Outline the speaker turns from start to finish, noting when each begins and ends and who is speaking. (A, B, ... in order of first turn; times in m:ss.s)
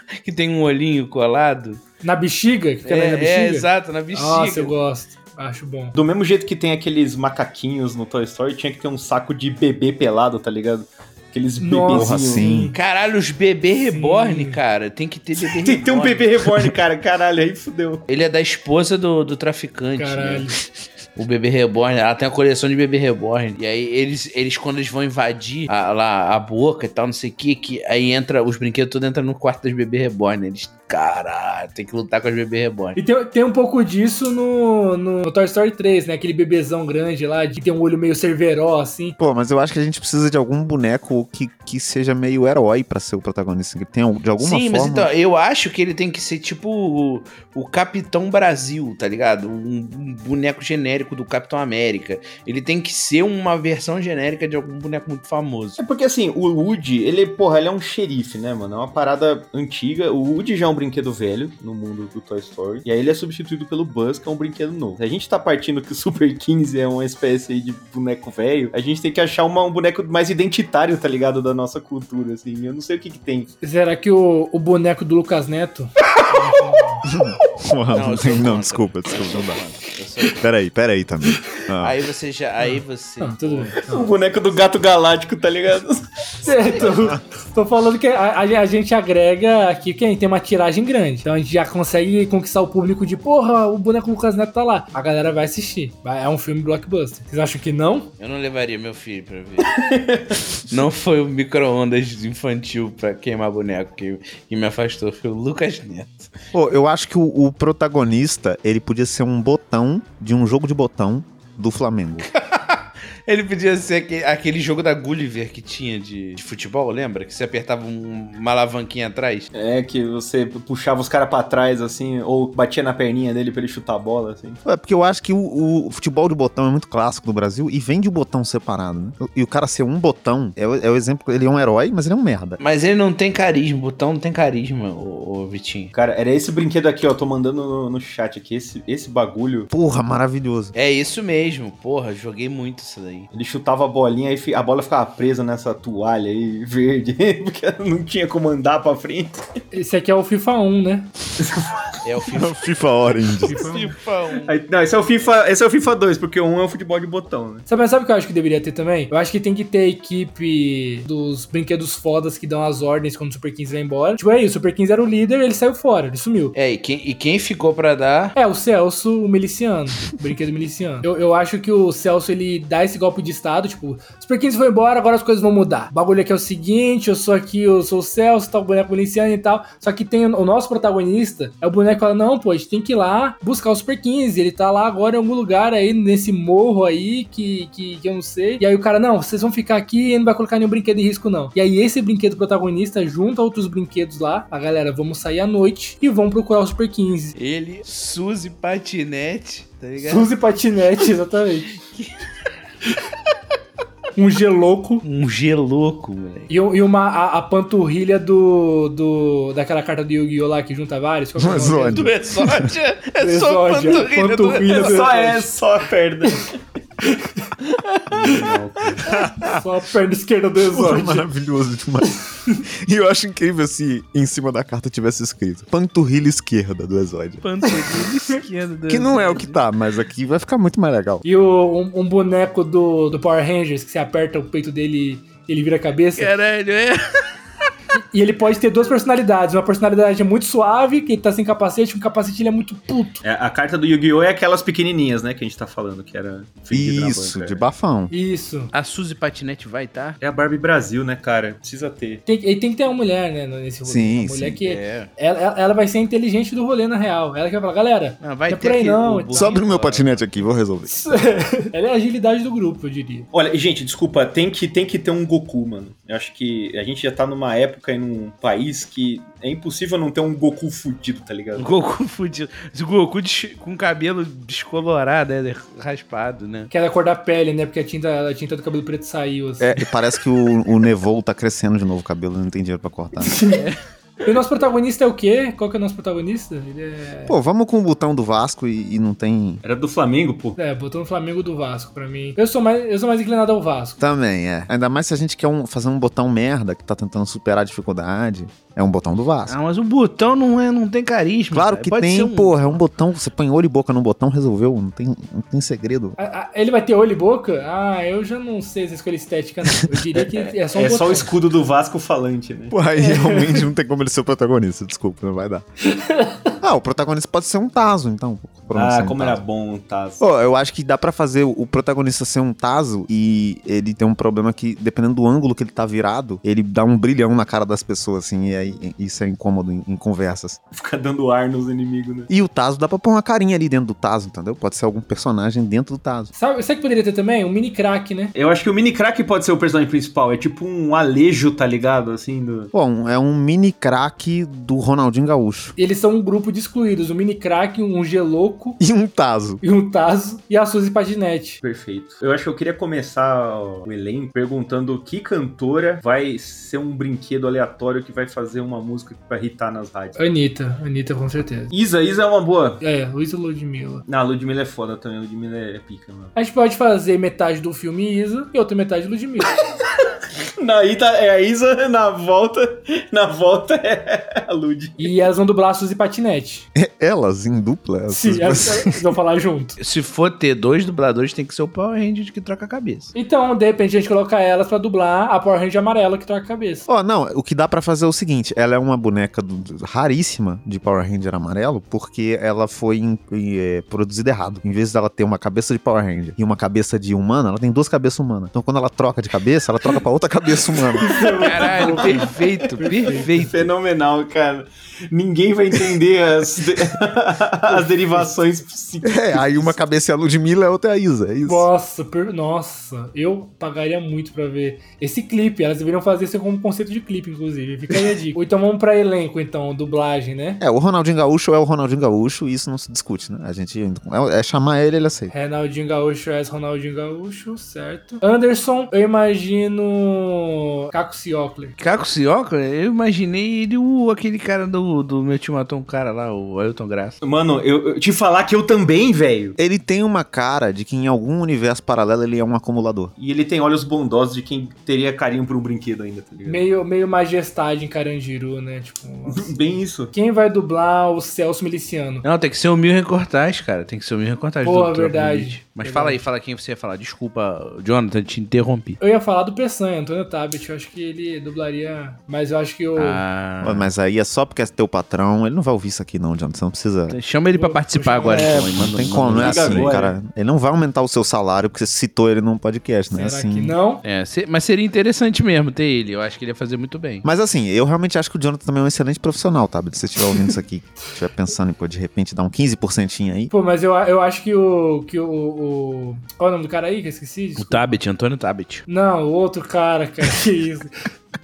0:00.2-0:01.8 A
0:02.0-0:06.0 B
0:02.8-0:04.7 A
0:05.9-0:12.4 C
0:11.6-0:12.7 B
0:11.9-0:12.7 D
0:12.7-0:16.2 A
0:13.9-0:14.6 B
0:15.6-0:18.0 C
0:18.1-0:20.4 A
0:20.0-0:20.6 B
0:21.2-0:33.0 A
0:33.0-0:39.2 B
0:39.2-0:45.1 D
0:44.4-0:55.8 A
0:55.8-1:13.5 C
1:13.6-1:17.0 B
1:17.0-1:19.6 D
1:17.9-1:20.4 A
1:20.4-1:21.9 D
1:21.8-1:23.8 A
1:22.6-1:24.1 B
1:23.9-1:26.0 C
1:26.4-1:38.1 B
1:38.2-1:39.7 A
1:39.7-1:40.4 C
1:40.7-1:46.3 A
1:46.5-1:52.3 D
1:52.3-1:59.5 A
1:59.5-2:04.6 C
2:04.6-2:12.6 D
2:12.6-2:15.9 A
2:15.9-2:19.7 C
2:19.7-2:20.7 D
2:20.7-2:23.3 A
2:23.3-2:29.4 C
2:29.7-2:31.1 B
2:31.4-2:31.8 C
2:32.0-2:32.6 A
2:32.3-2:33.7 D
2:33.4-2:34.5 A
2:33.5-2:33.9 C
2:34.4-2:37.6 C
2:37.7-2:46.5 B
2:46.5-2:48.3 A
2:48.4-3:17.3 B
3:17.4-3:20.3 A
3:20.0-3:21.8 B
3:21.9-3:22.1 A
3:24.1-3:25.0 B
3:25.0-3:26.5 A
3:26.5-3:32.1 B
3:31.4-3:32.7 D
3:31.9-3:35.0 A
3:33.2-3:35.5 B
3:34.7-3:36.6 C
3:37.0-3:37.5 B
3:38.1-3:39.1 C
3:39.0-3:39.6 D
3:39.2-3:41.3 B
3:40.7-3:47.4 D
3:47.4-3:49.6 A
3:48.9-3:51.2 D
3:51.2-3:56.3 B
3:56.2-3:57.0 A
3:58.1-4:03.2 B
4:03.2-4:07.6 C
4:06.7-4:08.1 D
4:08.1-4:08.7 B
4:08.7-4:10.2 A
4:10.2-4:12.2 C
4:12.2-4:19.5 B
4:13.8-4:14.6 D
4:14.6-4:15.1 A
4:18.2-4:20.2 A
4:19.3-4:21.1 D
4:20.9-4:23.3 B
4:23.3-4:31.7 C
4:31.6-4:36.7 A
4:36.7-4:39.8 B
4:39.6-4:43.4 D
4:43.2-4:43.6 B
4:43.5-4:43.8 A
4:44.2-4:47.4 B
4:47.3-4:49.6 D
4:49.6-4:50.6 C
4:50.6-4:54.0 B
4:54.0-4:59.5 D
4:59.5-5:02.8 A
5:01.5-5:06.2 D
5:06.2-5:11.3 B
5:10.7-5:12.8 C
5:12.7-5:15.6 D
5:13.0-5:13.6 B
5:15.9-5:16.5 B
5:16.6-5:19.4 D
5:18.7-5:20.2 C
5:20.2-5:30.6 D
5:30.7-5:32.3 C
5:32.3-5:36.3 D
5:36.3-5:38.3 B
5:38.3-5:42.7 C
5:42.7-5:45.7 D
5:45.8-5:48.8 B
5:48.8-5:49.6 D
5:49.6-5:51.6 B
5:51.6-6:00.2 C
6:00.2-6:01.7 B
6:01.7-6:02.8 C
6:02.8-6:04.0 B
6:04.1-6:06.3 C
6:06.3-6:09.6 B
6:10.6-6:15.1 C
6:15.0-6:16.7 B
6:16.7-6:19.0 D
6:18.1-6:19.8 B
6:19.8-6:23.1 A
6:23.1-6:26.9 B
6:26.9-6:41.1 D
6:41.0-6:43.4 B
6:41.0-6:42.3 C
6:41.4-6:43.6 A
6:43.0-6:49.8 C
6:47.7-6:48.3 B
6:49.0-6:51.7 D
6:51.4-7:00.6 B
7:00.6-7:05.3 D
7:05.3-7:11.7 B
7:11.8-7:17.2 A
7:17.2-7:19.6 C
7:19.6-7:23.1 D
7:23.2-7:26.6 C
7:26.4-7:29.5 B
7:29.3-7:30.1 C
7:30.1-7:32.2 B
7:32.2-7:39.0 A
7:34.6-7:36.2 B
7:39.0-7:43.2 B
7:43.0-7:43.9 A
7:43.6-7:47.2 D
7:47.1-7:50.0 A
7:47.5-7:48.7 B
7:48.5-7:53.8 D
7:49.4-7:50.2 C
7:53.1-7:54.0 B
7:54.0-7:57.2 A
7:57.2-8:03.5 D
8:03.5-8:08.0 B
8:07.6-8:08.8 A
8:08.9-8:10.9 B